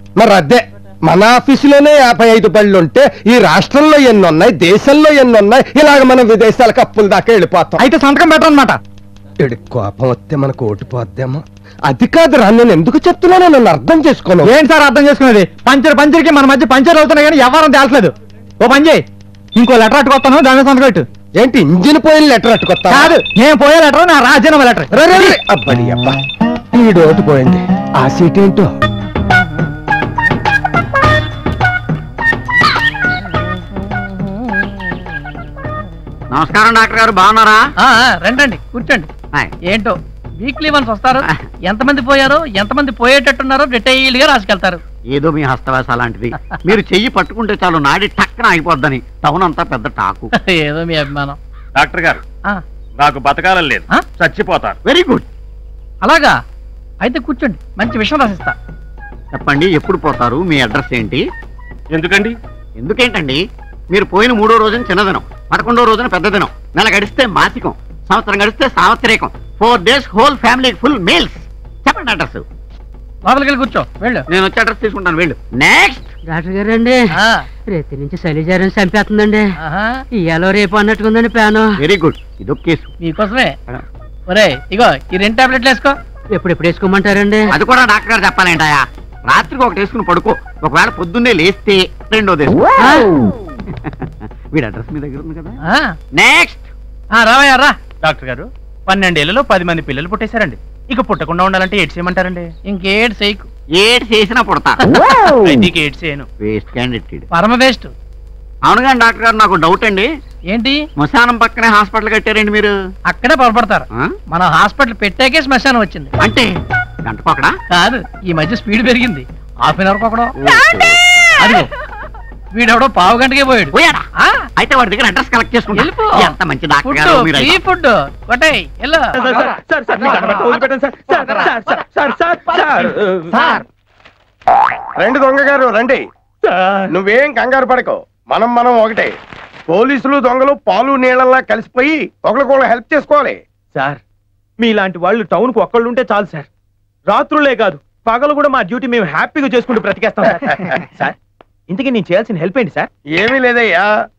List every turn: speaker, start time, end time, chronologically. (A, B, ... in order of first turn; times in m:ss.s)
0:00.2-0:07.8 A
0:07.8-0:08.8 B
0:09.4-0:14.5 A
0:14.4-0:21.0 B
0:21.4-0:23.1 A
0:22.9-0:25.3 B
0:24.9-0:26.2 A
0:26.7-0:28.7 A
0:36.3-0:37.6 C
0:37.8-0:39.1 D
0:39.7-0:44.8 D
0:45.1-0:50.3 C
0:50.3-0:51.4 D
0:51.8-0:52.2 E
0:53.0-0:54.7 E
0:54.8-0:55.2 C
0:56.0-0:56.4 D
0:57.0-0:58.6 D
0:59.3-1:01.2 C
1:01.9-1:02.3 E
1:02.8-1:12.4 C
1:13.2-1:14.2 D
1:14.3-1:16.1 C
1:16.2-1:17.1 F
1:17.1-1:17.4 D
1:17.7-1:19.5 F
1:19.6-1:20.0 D
1:20.1-1:21.8 F
1:21.8-1:22.9 C
1:23.0-1:23.6 D
1:24.3-1:25.9 D
1:26.3-1:27.5 F
1:27.5-1:32.7 C
1:32.8-1:33.1 F
1:34.5-1:35.6 C
1:35.6-1:35.9 D
1:36.1-1:36.6 C
1:37.2-1:37.8 D
1:38.0-1:42.5 G
1:42.7-1:43.5 D
1:43.8-1:44.8 C
1:45.4-1:46.2 G
1:46.4-1:47.2 C
1:47.3-1:47.9 D
1:48.6-1:50.1 C
1:50.5-1:50.8 D
1:51.0-1:52.7 C
1:53.1-1:56.1 D
1:56.2-1:56.5 C
1:57.0-1:57.5 C
1:57.7-2:00.3 D
2:00.4-2:01.0 C
2:02.5-2:04.3 D
2:03.7-2:04.0 C
2:04.6-2:07.5 C
2:05.8-2:09.1 D
2:09.1-2:13.6 G
2:15.0-2:16.0 H
2:16.9-2:19.1 H
2:19.7-2:23.4 H
2:24.6-2:26.5 G
2:27.1-2:31.1 G
2:31.7-2:32.9 G
2:33.2-2:33.8 H